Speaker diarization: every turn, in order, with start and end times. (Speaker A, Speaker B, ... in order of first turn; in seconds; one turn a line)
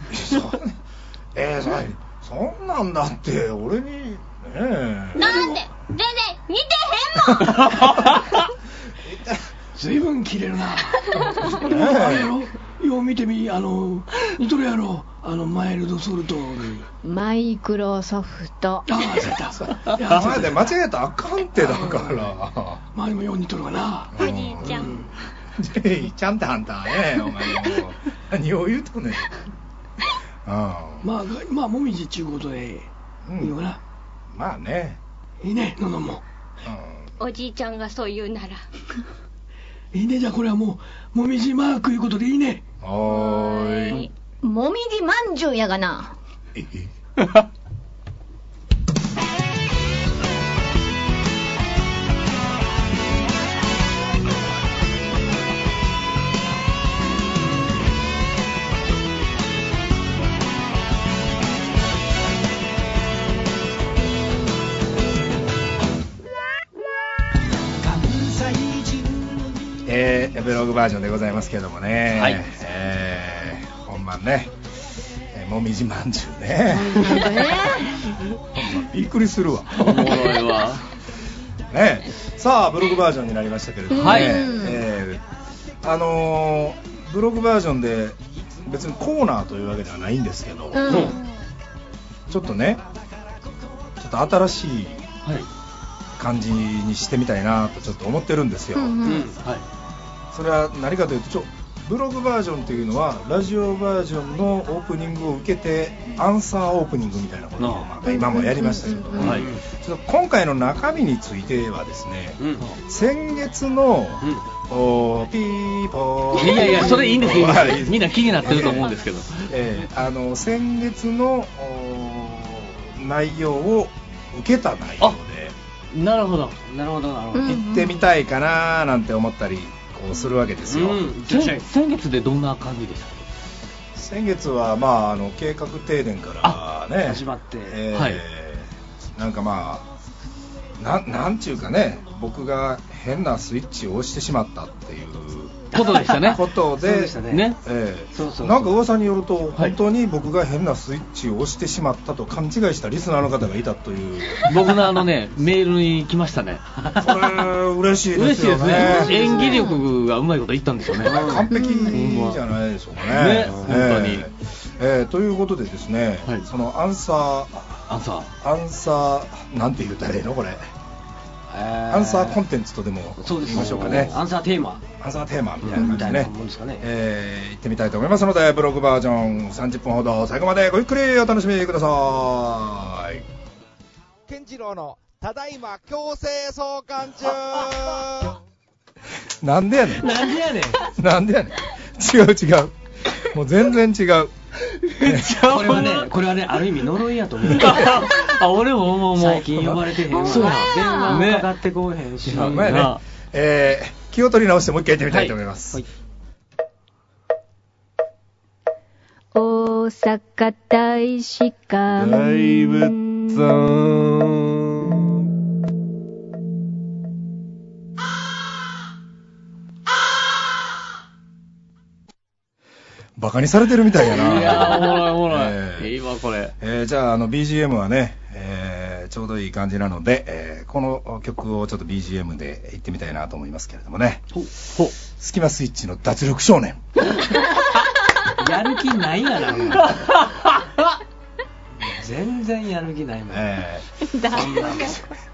Speaker A: 0.1-0.8
Speaker A: 1.3-5.5
Speaker B: 5.1-7.8
Speaker A: 9.0-9.4
Speaker C: 9.7-16.9
Speaker A: 11.3-12.3
Speaker D: 17.0-18.9
Speaker C: 18.9-20.7
Speaker A: 19.5-22.8
Speaker C: 21.6-22.2
Speaker C: 22.9-25.1
Speaker A: 24.1-25.0
Speaker B: 24.1-25.0
Speaker A: 25.6-29.3
Speaker A: 30.4-31.1
Speaker C: 31.0-33.8
Speaker A: 33.2-33.6
Speaker A: 34.3-35.0
Speaker C: 35.4-36.2
Speaker A: 36.6-37.1
Speaker B: 37.2-38.6
Speaker C: 39.9-42.6
Speaker A: 42.8-44.0
Speaker B: 43.2-44.1
Speaker D: 44.4-46.1
Speaker A: 46.5-46.9
Speaker C: 67.8-69.3
Speaker A: 69.8-77.5
Speaker E: 72.1-72.4
Speaker D: 76.7-78.0
Speaker A: 78.5-80.4
Speaker E: 79.8-80.8
Speaker A: 81.7-85.2
Speaker E: 83.9-84.5
Speaker D: 83.9-84.8
Speaker A: 85.8-91.1
Speaker D: 90.7-91.2
Speaker C: 90.8-91.2
Speaker A: 92.3-92.8
Speaker A: 94.0-95.0
Speaker A: 96.2-99.1
Speaker D: 98.7-99.3
Speaker C: 99.0-99.4
Speaker A: 100.3-118.9
Speaker E: 107.6-107.9
Speaker D: 108.0-109.3
Speaker C: 109.2-109.6
Speaker E: 109.2-109.5
Speaker C: 112.4-112.7
Speaker E: 116.3-119.5
Speaker C: 116.5-117.5
Speaker A: 119.5-125.5
Speaker E: 125.9-126.6
Speaker C: 126.7-127.6
Speaker D: 127.3-128.0
Speaker A: 127.4-131.1
Speaker C: 130.7-131.7
Speaker E: 131.3-133.2
Speaker A: 133.9-139.9
Speaker C: 137.0-137.8
Speaker E: 137.9-138.2
Speaker A: 140.8-145.7
Speaker C: 145.7-147.5
Speaker E: 145.7-146.4
Speaker A: 146.2-154.6
Speaker E: 147.2-147.6
Speaker C: 148.1-148.8
Speaker E: 154.4-156.6
Speaker A: 157.0-159.2
Speaker E: 158.1-162.4
Speaker D: 158.8-159.8
Speaker C: 159.2-159.6
Speaker C: 161.0-161.5
Speaker A: 161.0-170.6
Speaker D: 161.5-162.0
Speaker E: 163.0-164.2
Speaker C: 163.1-163.8
Speaker E: 167.9-168.3
Speaker C: 171.5-172.4
Speaker A: 171.9-174.2
Speaker C: 173.2-174.8
Speaker E: 173.5-174.1
Speaker A: 175.0-183.2
Speaker C: 175.6-176.8
Speaker F: 184.3-188.3
Speaker A: 189.4-190.2
Speaker C: 189.9-190.8
Speaker A: 190.9-194.3
Speaker E: 194.7-196.1
Speaker A: 195.0-195.3
Speaker C: 195.4-198.1
Speaker E: 197.5-201.5
Speaker C: 199.1-202.8
Speaker D: 200.1-201.2
Speaker E: 202.2-203.0
Speaker A: 202.4-205.8
Speaker D: 209.3-213.4
Speaker A: 212.0-214.0
Speaker A: 223.2-225.9
Speaker E: 224.1-226.5
Speaker A: 226.6-237.1
Speaker E: 234.4-234.9
Speaker C: 238.4-240.1
Speaker E: 239.9-240.9
Speaker C: 241.8-243.5
Speaker A: 243.3-244.6
Speaker D: 244.0-245.1
Speaker C: 244.3-245.1